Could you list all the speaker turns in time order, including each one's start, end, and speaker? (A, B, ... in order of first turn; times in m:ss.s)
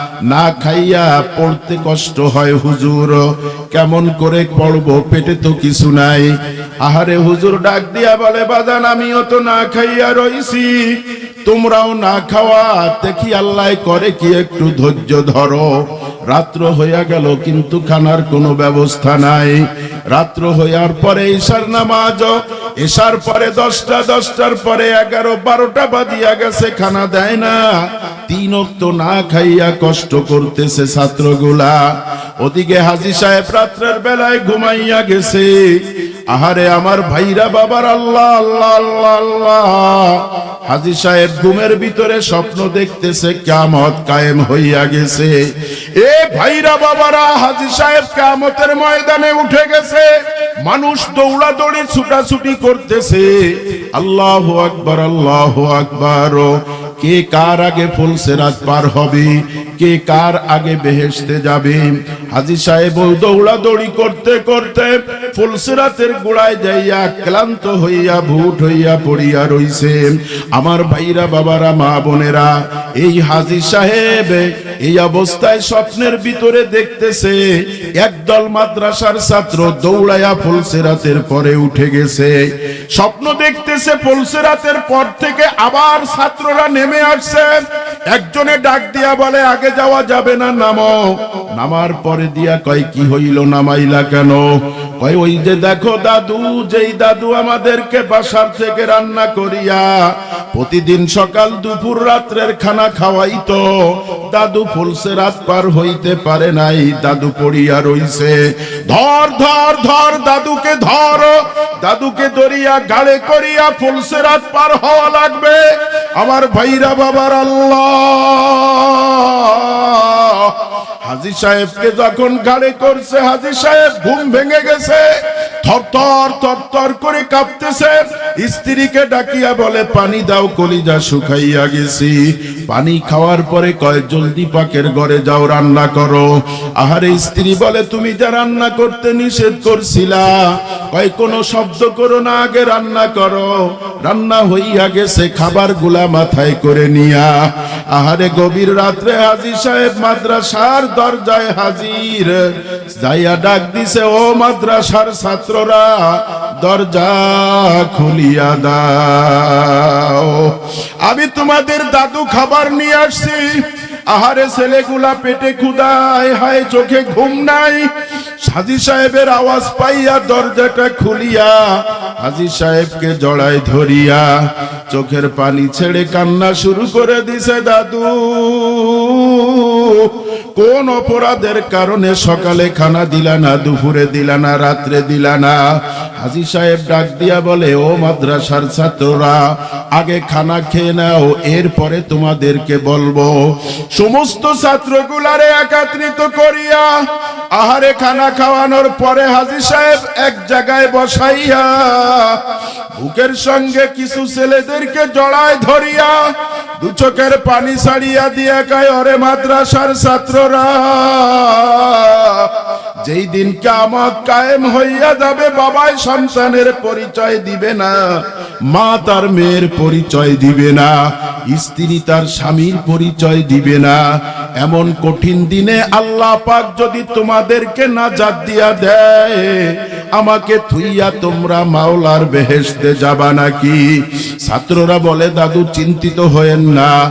0:00.2-0:45.4 A
0:46.0-0:50.1 A
0:50.6-1:22.4 A
1:22.9-1:27.6 A
1:28.1-3:26.2 A
3:26.8-3:41.0 A
3:41.5-3:44.0 A
3:44.6-3:57.0 A